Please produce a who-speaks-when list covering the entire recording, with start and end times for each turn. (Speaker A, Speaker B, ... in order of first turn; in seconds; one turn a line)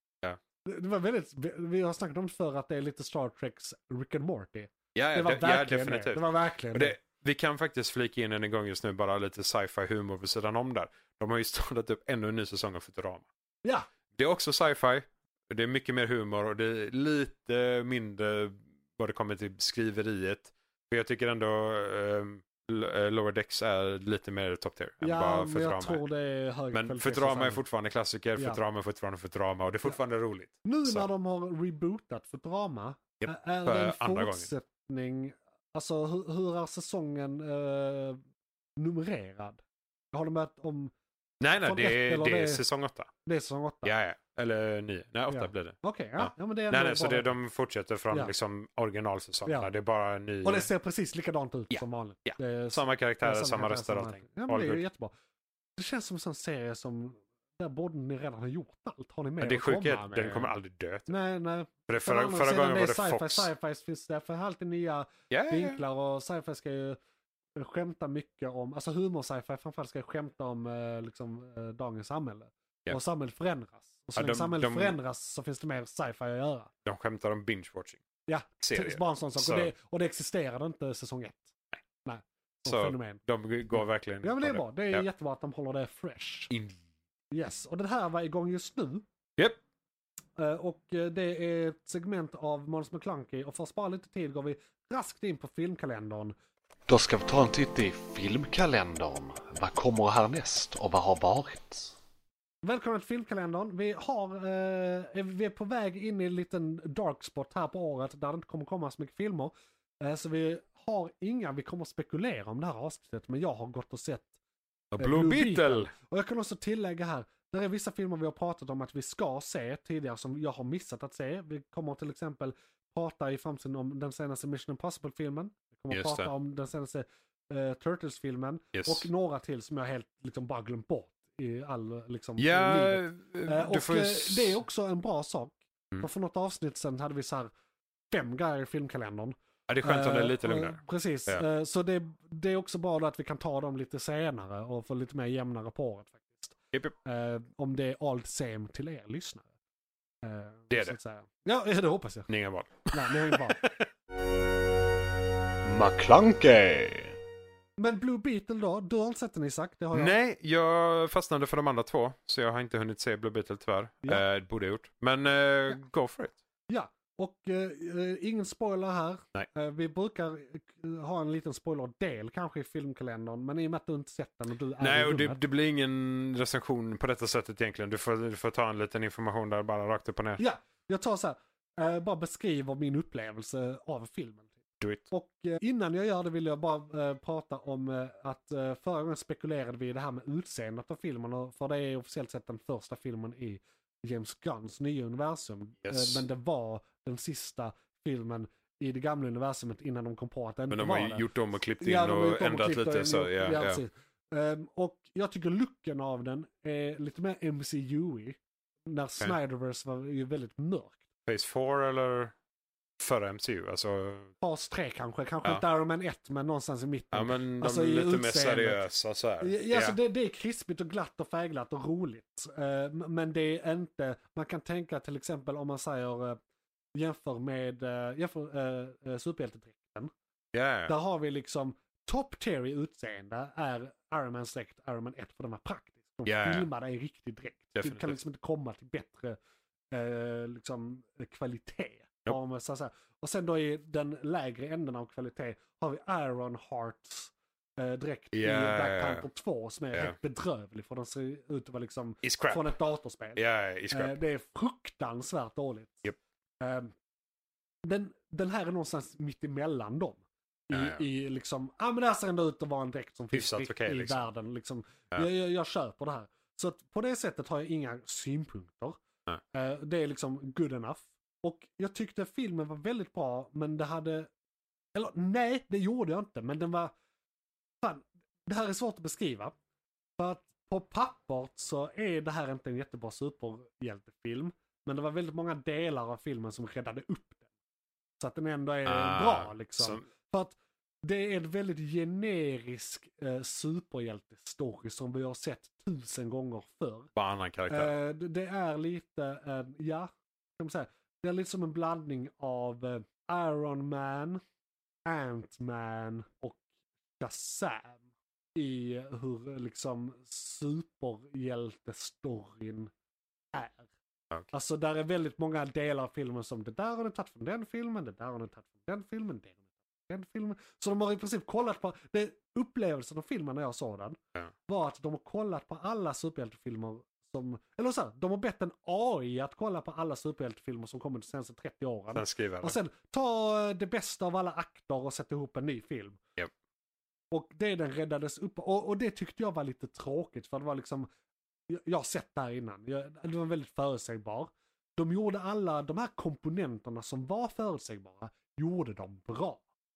Speaker A: 0.7-7.0
Speaker B: 5.0-13.3
Speaker B: 14.1-26.0
Speaker A: 25.0-27.6
Speaker B: 26.7-31.1
Speaker A: 30.6-38.2
Speaker B: 33.2-34.5
Speaker A: 38.8-39.6
Speaker A: 40.1-40.9
Speaker B: 41.4-43.1
Speaker A: 41.6-42.6
Speaker A: 43.2-43.9
Speaker B: 43.8-50.7
Speaker A: 45.3-47.3
Speaker A: 50.4-55.1
Speaker B: 51.7-54.8
Speaker A: 55.8-60.5
Speaker B: 59.4-61.1
Speaker A: 61.1-67.0
Speaker B: 61.9-63.5
Speaker B: 65.3-65.8
Speaker A: 67.6-76.7
Speaker B: 74.2-75.0
Speaker B: 76.8-78.0
Speaker A: 78.3-81.5
Speaker B: 78.6-79.7
Speaker A: 82.0-86.5
Speaker B: 82.7-85.0
Speaker B: 86.5-86.8
Speaker A: 87.3-89.0
Speaker A: 90.4-96.3
Speaker C: 96.9-101.9
Speaker A: 102.6-114.3
Speaker B: 114.9-115.9
Speaker A: 115.0-137.5
Speaker B: 125.9-126.3
Speaker B: 128.7-129.1
Speaker B: 132.4-134.6
Speaker A: 138.1-149.4
Speaker B: 139.7-141.4
Speaker A: 150.2-152.3
Speaker B: 150.7-151.0
Speaker B: 152.3-153.8
Speaker A: 152.9-153.7
Speaker C: 155.6-157.2
Speaker A: 157.8-160.2
Speaker B: 159.9-166.3
Speaker A: 166.7-175.4
Speaker B: 174.8-180.4
Speaker A: 180.4-201.3
Speaker B: 184.8-185.1
Speaker B: 195.8-196.2
Speaker B: 200.7-203.8
Speaker A: 201.8-211.0
Speaker B: 211.3-212.3
Speaker B: 213.0-214.3
Speaker A: 214.4-218.8
Speaker B: 217.1-220.0
Speaker A: 219.4-226.4
Speaker A: 226.9-230.1
Speaker B: 230.5-230.9
Speaker A: 230.9-239.4
Speaker B: 236.2-236.7
Speaker B: 237.8-238.2
Speaker A: 239.9-253.4
Speaker B: 248.3-249.2
Speaker B: 252.2-252.7
Speaker B: 253.4-254.2
Speaker A: 253.9-256.1
Speaker A: 256.6-256.9
Speaker A: 257.9-269.0
Speaker B: 260.7-261.1
Speaker B: 263.3-264.3
Speaker A: 269.5-274.3
Speaker A: 274.9-276.9
Speaker A: 277.8-279.6
Speaker A: 280.2-287.4
Speaker A: 288.2-297.1
Speaker B: 288.9-290.0
Speaker B: 297.2-297.9
Speaker A: 297.7-304.4
Speaker A: 305.1-306.6
Speaker A: 307.2-308.0
Speaker A: 308.6-312.9
Speaker A: 313.5-313.9
Speaker A: 314.5-336.2
Speaker B: 332.1-332.8
Speaker A: 337.3-341.1
Speaker A: 341.7-349.6